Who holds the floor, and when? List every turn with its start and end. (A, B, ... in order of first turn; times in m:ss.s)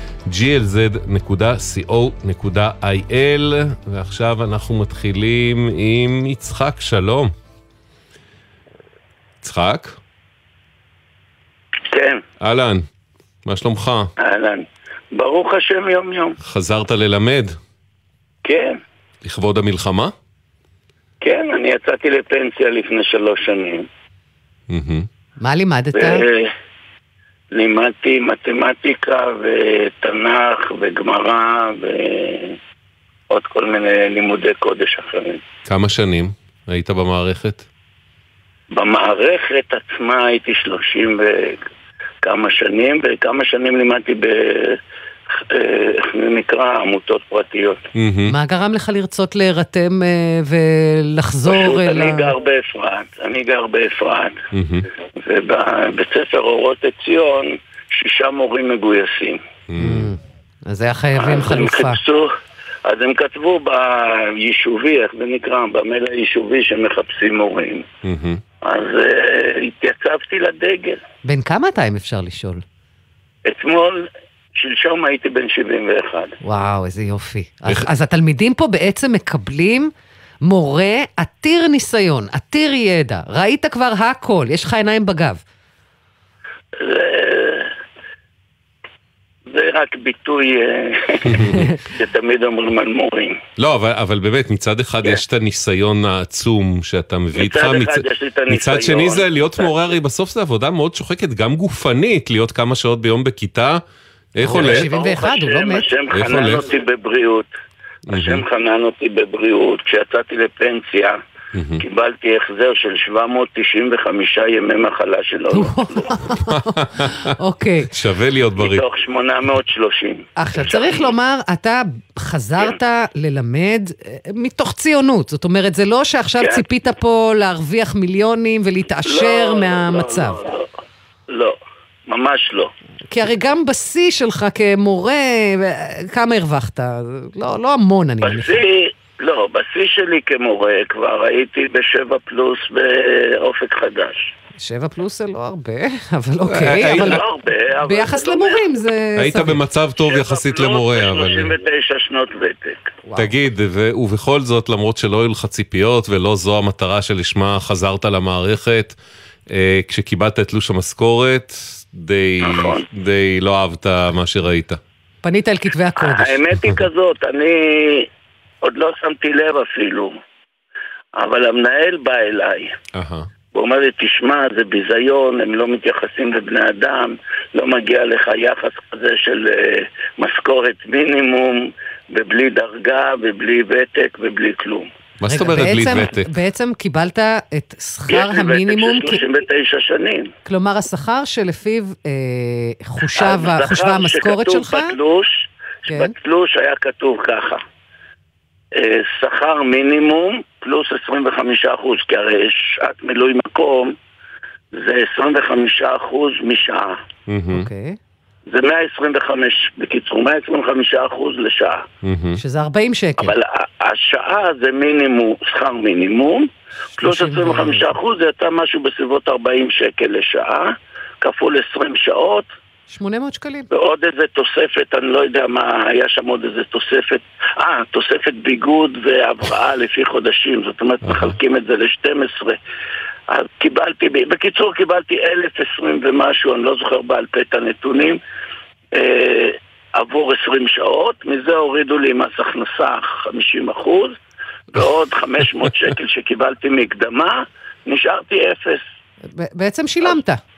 0:00.3-0:07.3 A
0:09.4-0:10.0 A
0:11.9-0:12.2 B
0:12.4-0:12.8 A
0:13.4-0:14.1 A
0:14.2-0:16.4 B
0:16.4-0:17.6 A
0:18.4-0:18.8 B
0:19.2-0:20.1 A
0:21.2-0:23.9 B
0:24.7-0:25.1 A
0:25.4-0:26.2 C
0:26.0-0:26.5 B
0:27.5-0:32.6 B
0:33.3-0:35.4 B
0:35.6-0:37.7 A
0:38.7-0:41.6 B
0:42.2-0:44.8 B
0:45.4-0:47.8 B
0:48.0-0:48.3 A
0:48.3-0:52.3 C
0:51.5-0:54.4 B
0:54.5-0:54.9 A
0:55.2-0:59.4 B
0:59.7-1:00.1 A
0:59.8-1:02.0 C
1:01.2-1:02.3 B
1:02.8-1:07.9 B
1:08.0-1:08.4 A
1:08.6-1:11.0 B
1:11.2-1:12.6 C
1:13.5-1:16.4 B
1:16.4-1:19.9 C
1:20.5-1:25.4 C
1:26.8-1:27.7 B
1:29.5-1:33.4 B
1:31.3-1:31.6 A
1:33.6-1:43.8 A
1:37.4-1:39.7 B
1:44.4-1:44.9 A
1:44.4-1:45.9 C
1:44.5-1:47.5 B
1:46.1-1:46.6 A
1:48.1-1:48.4 A
1:48.1-1:51.2 B
1:51.5-1:51.8 A
1:51.8-1:56.2 B
1:55.5-1:57.9 C
1:56.8-1:57.3 A
1:57.9-1:58.8 A
1:58.6-2:01.1 B
2:00.4-2:10.4 C
2:09.1-2:10.7 B
2:11.3-2:11.6 B
2:12.1-2:12.7 B
2:13.1-2:18.5 C
2:18.2-2:24.3 B
2:24.6-2:27.2 C
2:26.5-2:27.2 A
2:26.9-2:28.6 B
2:27.8-2:29.6 C
2:29.2-2:31.5 A
2:30.1-2:32.9 B
2:33.0-2:33.3 C
2:33.2-2:39.0 A
2:39.5-2:44.8 A
2:42.4-2:42.8 B
2:45.2-2:46.4 C
2:46.0-2:48.1 B
2:48.6-2:50.1 B
2:51.2-2:52.7 B
2:53.0-2:53.3 A
2:53.5-3:04.9 B
3:05.2-3:06.3 A
3:05.2-3:09.2 C
3:08.1-3:10.3 B
3:10.4-3:14.9 C
3:13.2-3:17.6 B
3:15.9-3:16.1 C
3:18.8-3:24.0 B
3:24.7-3:27.0 B
3:27.3-3:27.7 A
3:27.5-3:28.0 C
3:28.5-3:31.8 B
3:32.0-3:32.4 A
3:32.4-3:33.3 C
3:33.2-3:36.5 B
3:37.0-3:37.9 C
3:37.0-3:42.5 B
3:42.9-3:43.7 C
3:43.7-3:52.6 B
3:51.0-3:51.4 A
3:53.3-3:58.2 B
3:58.9-4:04.2 B
4:04.7-4:08.8 B
4:09.3-4:10.4 C